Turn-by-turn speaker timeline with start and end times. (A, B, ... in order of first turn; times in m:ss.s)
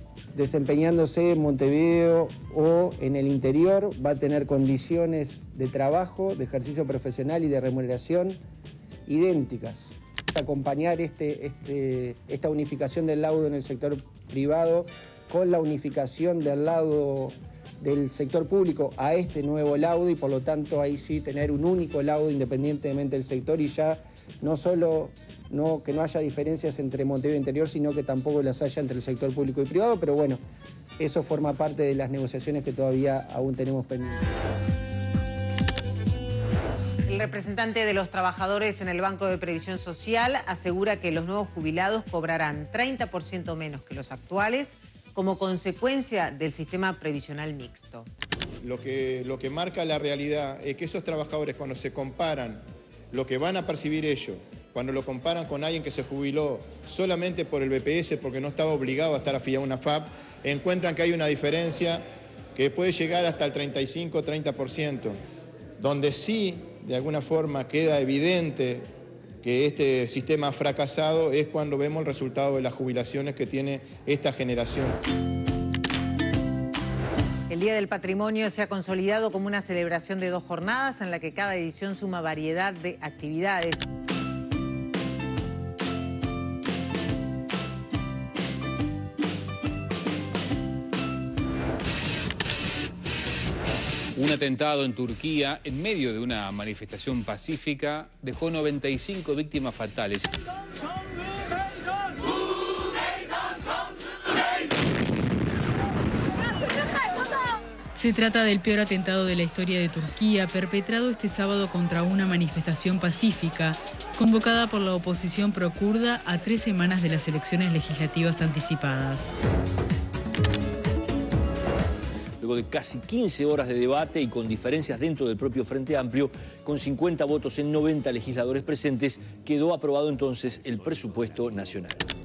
0:00.4-0:08.4 A
0:09.1-0:30.4 A
0:31.0-0:34.2 A
0:37.1-0:48.1 B
0:48.6-1:02.0 C
1:02.6-1:05.2 C
1:05.8-1:08.9 C
1:09.4-1:15.0 C
1:17.5-1:23.8 B
1:34.2-1:40.3 D
1:48.0-1:59.3 E
2:02.4-2:12.0 F